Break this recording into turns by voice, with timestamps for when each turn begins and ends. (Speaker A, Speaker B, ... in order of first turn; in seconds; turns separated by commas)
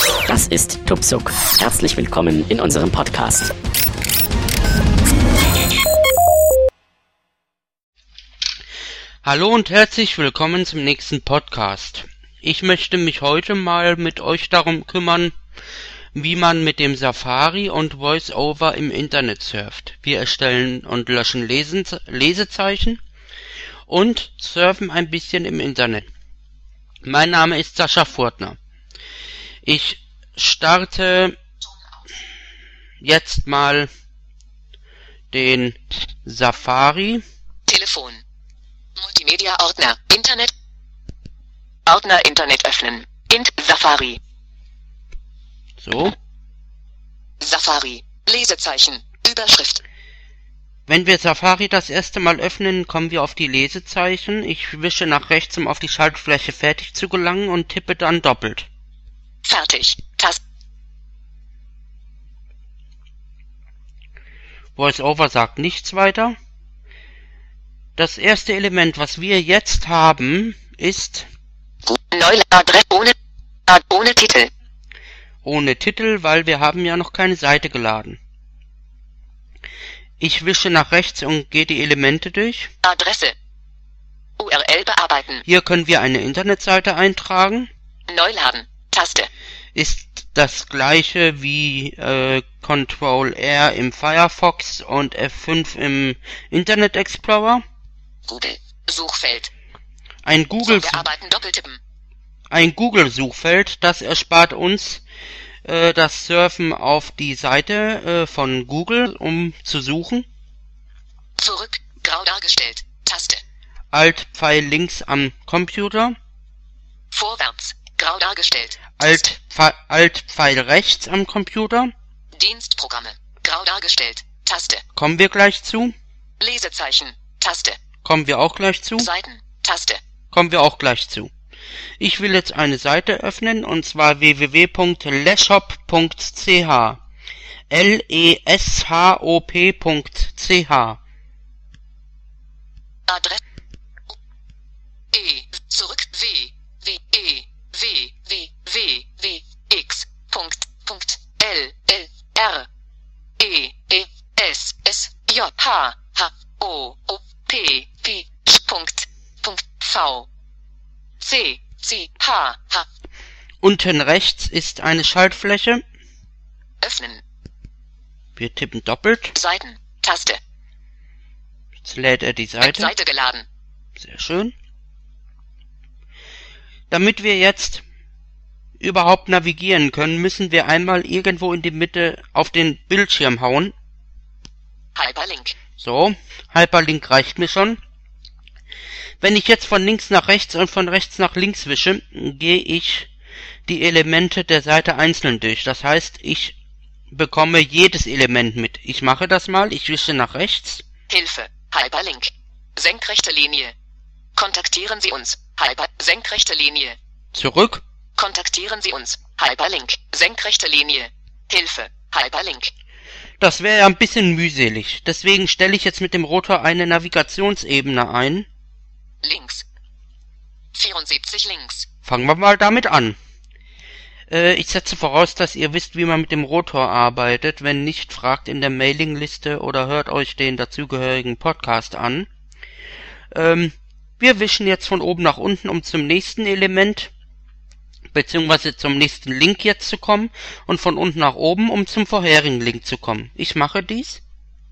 Speaker A: 0.2-3.5, Speaker B: 9.2-15.3, Speaker B: 16.1-23.0, Speaker B: 23.9-26.1, Speaker B: 27.0-28.6, Speaker B: 29.6-31.3, Speaker B: 33.0-33.9, Speaker B: 35.3-37.2, Speaker C: 37.7-38.2, Speaker C: 39.0-40.5, Speaker C: 41.9-44.2, Speaker B: 45.8-46.1, Speaker C: 47.4-49.8, Speaker B: 50.9-58.7, Speaker C: 59.4-60.4, Speaker B: 64.8-66.4, Speaker B: 68.0-71.3, Speaker C: 71.9-73.1, Speaker C: 73.7-74.5, Speaker B: 75.4-78.2, Speaker B: 80.2-82.7, Speaker C: 82.8-83.3, Speaker C: 84.4-85.4, Speaker B: 85.5-87.7, Speaker C: 88.1-89.3, Speaker B: 89.7-97.6, Speaker C: 98.3-99.5, Speaker B: 100.2-101.1, Speaker C: 100.6-101.8, Speaker B: 102.5-105.0, Speaker B: 105.6-110.2, Speaker C: 111.4-113.4, Speaker B: 113.9-116.2, Speaker C: 117.1-119.3, Speaker B: 119.0-121.9, Speaker C: 122.3-124.8, Speaker B: 125.0-125.9, Speaker C: 126.4-127.8, Speaker B: 128.0-129.1, Speaker C: 129.0-130.0, Speaker B: 130.3-131.3, Speaker B: 132.0-137.0, Speaker B: 137.7-141.0, Speaker C: 143.1-143.4, Speaker C: 145.1-152.7, Speaker C: 153.4-160.3, Speaker C: 161.2-162.9, Speaker B: 163.6-165.8, Speaker C: 166.8-167.2, Speaker B: 168.3-169.3, Speaker C: 169.3-170.4, Speaker B: 171.8-172.9, Speaker C: 172.6-173.4, Speaker B: 174.0-174.5, Speaker B: 176.9-177.8, Speaker B: 178.8-183.7, Speaker C: 184.9-185.6, Speaker B: 185.8-187.8, Speaker B: 189.2-193.1, Speaker B: 193.7-196.5, Speaker B: 197.1-200.8, Speaker C: 201.1-203.7, Speaker C: 204.3-207.0, Speaker B: 207.3-207.8, Speaker C: 208.2-212.7, Speaker B: 213.4-218.5, Speaker C: 219.2-219.6, Speaker C: 220.7-221.8, Speaker B: 222.0-223.2, Speaker B: 224.3-232.3, Speaker B: 233.3-237.1, Speaker B: 238.1-244.2